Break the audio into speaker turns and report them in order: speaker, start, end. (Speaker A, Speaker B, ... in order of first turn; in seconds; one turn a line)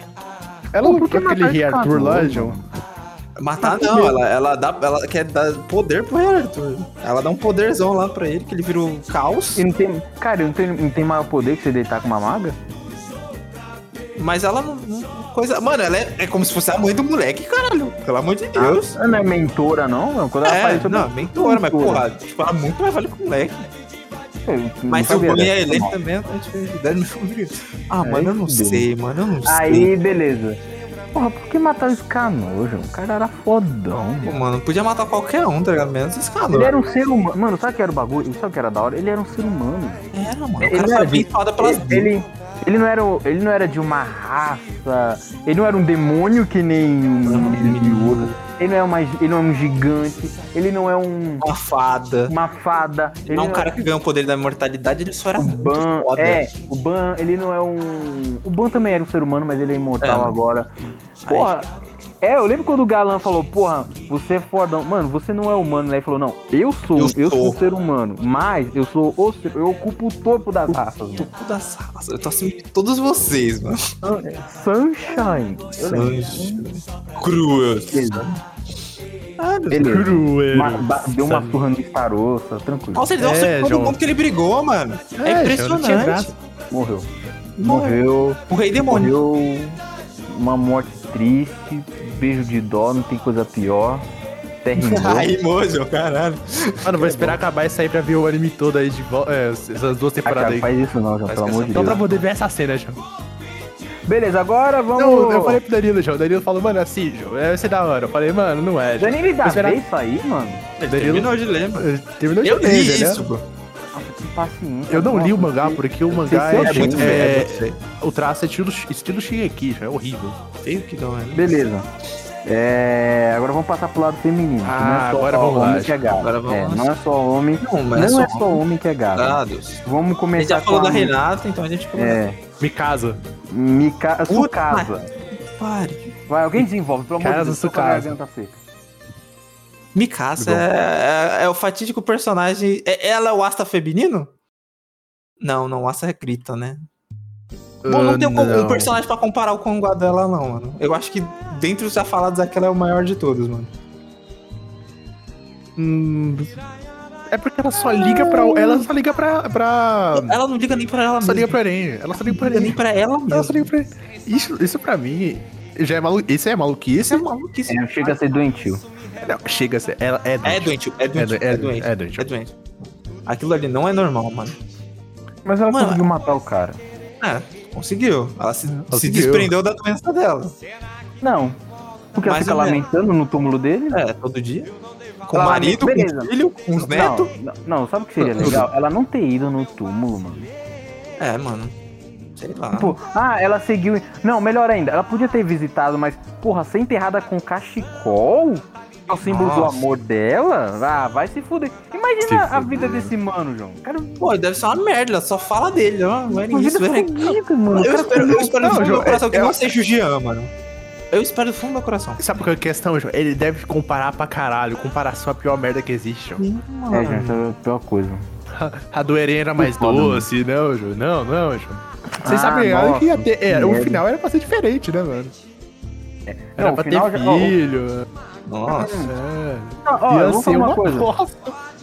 Speaker A: 0.7-2.6
Speaker B: 0.8-2.6
Speaker C: 3.4-9.6
Speaker B: 3.6-4.1
Speaker B: 9.6-12.6
Speaker C: 14.2-19.0
Speaker B: 18.6-22.0
Speaker C: 20.4-23.7
Speaker B: 24.4-25.9
Speaker C: 24.9-29.9
Speaker B: 28.0-28.9
Speaker B: 29.4-30.6
Speaker B: 31.1-34.3
Speaker C: 34.2-36.7
Speaker B: 36.5-40.1
Speaker C: 40.1-42.1
Speaker B: 40.6-51.5
Speaker C: 47.3-48.3
Speaker C: 51.4-52.3
Speaker B: 52.3-53.7
Speaker C: 53.3-56.5
Speaker B: 55.4-60.7
Speaker C: 60.0-60.3
Speaker C: 61.2-61.5
Speaker B: 61.2-61.7
Speaker B: 62.2-71.3
Speaker C: 66.9-67.6
Speaker C: 70.7-73.9
Speaker B: 74.0-76.7
Speaker C: 75.8-78.4
Speaker B: 77.9-78.3
Speaker C: 79.4-80.0
Speaker B: 79.7-83.0
Speaker A: 79.7-81.6
Speaker C: 82.9-86.3
Speaker A: 83.2-84.0
Speaker A: 85.2-86.3
Speaker B: 86.7-87.1
Speaker C: 87.6-89.1
Speaker B: 87.6-94.0
Speaker B: 94.6-95.3
Speaker C: 94.8-97.4
Speaker A: 96.8-100.7
Speaker B: 100.2-102.0
Speaker C: 101.3-102.2
Speaker A: 101.7-103.0
Speaker B: 104.1-105.6
Speaker A: 105.0-109.8
Speaker B: 109.0-110.7
Speaker C: 110.8-111.9
Speaker A: 110.8-113.3
Speaker C: 112.4-113.4
Speaker B: 113.9-117.2
Speaker A: 114.9-120.4
Speaker C: 116.5-117.8
Speaker C: 120.6-121.6
Speaker B: 121.3-121.9
Speaker B: 122.4-131.2
Speaker A: 124.6-126.1
Speaker C: 126.2-126.9
Speaker C: 127.6-128.6
Speaker C: 129.1-129.8
Speaker C: 130.4-132.2
Speaker B: 131.9-132.4
Speaker A: 132.6-133.2
Speaker B: 133.5-135.1
Speaker C: 134.3-135.0
Speaker C: 135.6-136.1
Speaker B: 136.3-138.6
Speaker A: 137.2-138.1
Speaker C: 139.9-144.3
Speaker A: 140.4-140.7
Speaker C: 145.4-146.8
Speaker A: 147.8-149.0
Speaker C: 147.8-153.7
Speaker A: 155.8-156.6
Speaker A: 157.3-160.4
Speaker C: 157.9-158.8
Speaker C: 160.1-161.6
Speaker A: 161.2-167.3
Speaker C: 162.1-163.7
Speaker C: 167.0-168.2
Speaker B: 167.7-168.8
Speaker A: 169.2-172.2
Speaker C: 170.4-172.5
Speaker C: 173.2-174.6
Speaker B: 175.4-176.8
Speaker C: 175.7-176.1
Speaker C: 177.2-180.5
Speaker A: 178.7-179.5
Speaker B: 181.2-181.6
Speaker B: 182.2-184.0
Speaker C: 182.2-182.8
Speaker C: 183.9-184.7
Speaker C: 185.3-187.3
Speaker B: 185.3-190.5
Speaker A: 188.3-188.7
Speaker C: 191.2-191.7
Speaker C: 192.4-192.9
Speaker B: 192.7-204.3
Speaker C: 199.2-199.8
Speaker A: 202.2-203.1
Speaker C: 204.2-210.5
Speaker B: 206.3-208.9
Speaker A: 208.3-209.6
Speaker C: 211.1-212.2
Speaker A: 212.2-216.4
Speaker C: 216.4-217.4
Speaker B: 216.9-218.2
Speaker A: 218.5-225.3
Speaker B: 219.6-220.2
Speaker B: 222.2-224.0
Speaker B: 226.3-227.6
Speaker A: 226.6-228.1
Speaker C: 228.4-229.1
Speaker B: 228.7-229.1
Speaker A: 229.0-231.6
Speaker B: 229.8-231.1